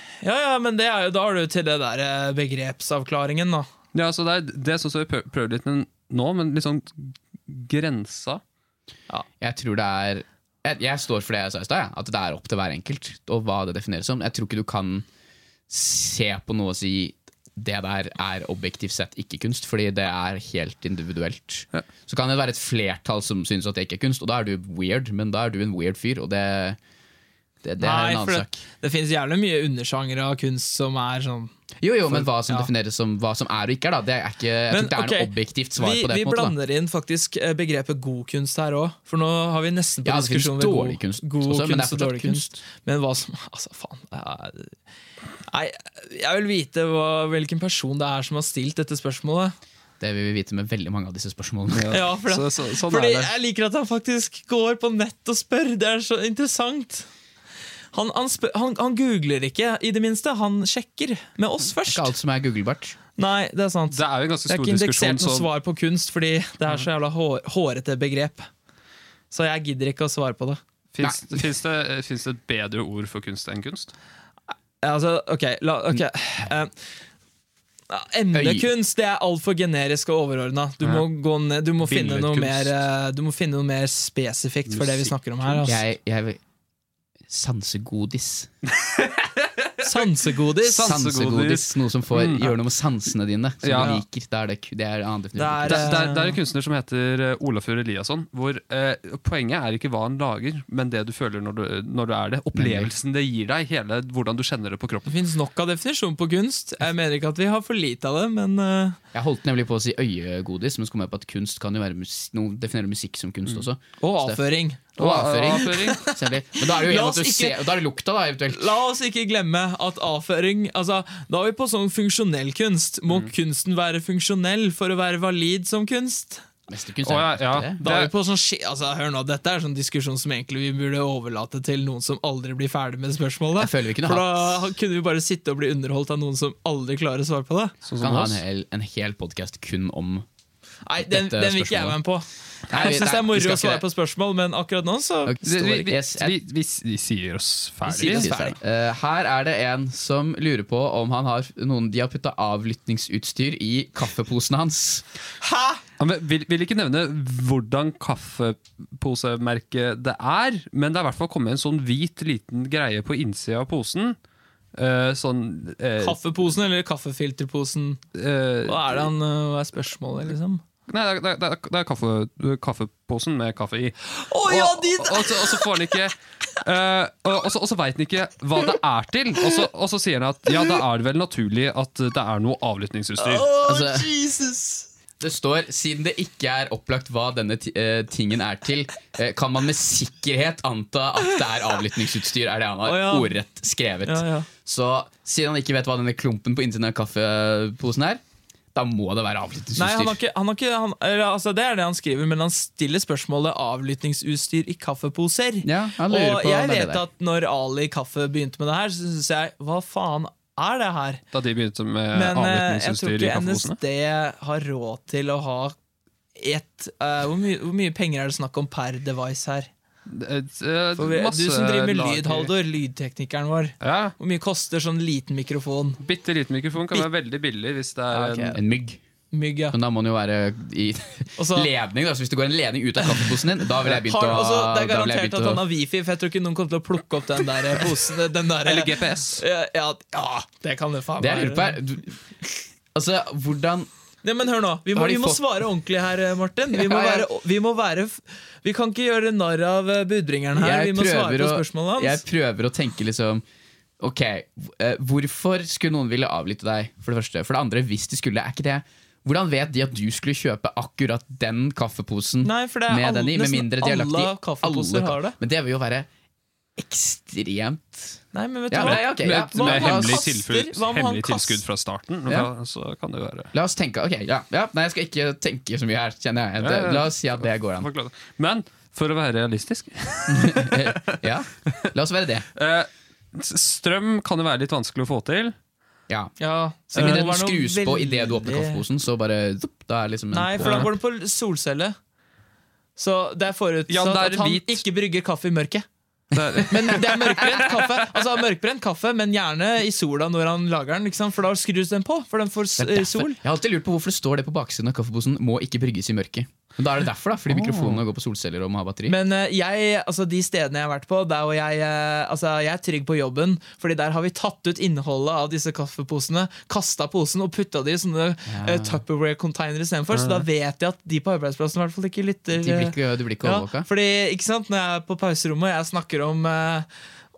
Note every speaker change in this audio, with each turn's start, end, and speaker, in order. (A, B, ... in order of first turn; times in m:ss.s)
0:00.2-0:03.7 A
0:03.9-0:08.4 B
0:09.4-0:15.0 C
0:15.7-0:26.8 C
0:27.6-0:28.6 C
0:27.8-0:31.5 A
0:31.8-0:36.6 C
0:32.1-0:32.7 A
0:34.7-0:44.8 A
0:40.0-0:42.6 C
0:45.5-0:49.5 A
0:50.0-0:52.0 C
0:51.7-0:53.3 B
0:51.9-0:57.1 A
0:57.9-1:02.1 A
1:01.9-1:03.0 C
1:03.2-1:08.5 A
1:03.9-1:05.5 B
1:09.3-1:10.6 A
1:10.9-1:13.9 B
1:11.0-1:11.4 C
1:14.8-1:16.7 A
1:17.9-1:25.8 A
1:18.3-1:18.7 C
1:21.8-1:22.7 B
1:24.7-1:25.6 B
1:25.6-1:26.4 C
1:27.3-1:28.5 C
1:28.8-1:30.0 B
1:29.8-1:31.0 A
1:30.6-1:32.6 B
1:30.8-1:36.0 C
1:33.6-1:34.0 B
1:35.4-1:36.4 A
1:35.7-1:45.2 B
1:42.5-1:42.9 C
1:45.1-1:49.0 A
1:49.1-1:54.4 C
1:54.0-1:57.8 A
1:55.0-1:58.8 C
1:55.0-1:56.0 B
1:58.5-2:06.4 A
2:06.7-2:07.8 C
2:07.0-2:08.1 B
2:07.8-2:17.7 A
2:13.6-2:14.7 C
2:17.8-2:18.4 B
2:18.0-2:20.2 C
2:20.9-2:25.4 A
2:21.0-2:22.0 C
2:22.7-2:23.8 C
2:25.2-2:26.4 C
2:25.4-2:28.3 B
2:27.9-2:35.0 C
2:27.9-2:28.6 A
2:35.4-2:35.8 A
2:36.0-2:44.2 B
2:44.8-2:46.2 B
2:46.0-2:48.0 A
2:48.2-2:49.1 B
2:48.7-2:50.6 A
2:50.9-3:03.5 B
2:54.1-2:55.9 A
3:03.2-3:04.9 A
3:03.6-3:04.1 C
3:05.2-3:18.2 C
3:12.8-3:13.4 A
3:14.0-3:14.5 A
3:18.7-3:20.2 C
3:19.8-3:31.2 A
3:25.6-3:27.0 C
3:31.3-3:33.8 B
3:32.1-3:35.8 A
3:36.4-3:39.7 A
3:40.1-3:42.5 B
3:41.0-3:46.0 A
3:43.8-3:44.2 B
3:46.0-3:48.6 B
3:48.1-3:49.0 C
3:48.2-3:48.5 A
3:49.3-3:49.8 A
3:49.7-3:55.6 C
3:51.4-3:51.7 A
3:53.8-4:01.8 A
3:58.6-3:59.4 B
4:01.2-4:02.2 C
4:02.9-4:03.9 C
4:04.2-4:12.2 A
4:04.9-4:05.4 C
4:06.7-4:07.3 C
4:10.6-4:13.4 C
4:14.0-4:26.1 C
4:22.4-4:25.4 A
4:26.8-4:30.3 C
4:28.3-4:31.6 A
4:28.8-4:33.5 B
4:33.5-4:37.9 C
4:36.6-4:41.9 B
4:40.3-4:42.5 C
4:42.6-4:45.6 B
4:46.4-4:48.8 A
4:46.9-4:50.9 C
4:50.3-4:52.0 A
4:50.6-4:50.9 B
4:53.0-4:55.8 A
4:53.9-4:54.8 B
4:56.3-4:57.7 B
4:56.6-5:03.4 A
5:02.8-5:09.2 C
5:07.5-5:08.0 B
5:09.1-5:26.9 A
5:18.5-5:19.0 C
5:20.1-5:20.5 B
5:22.6-5:23.9 C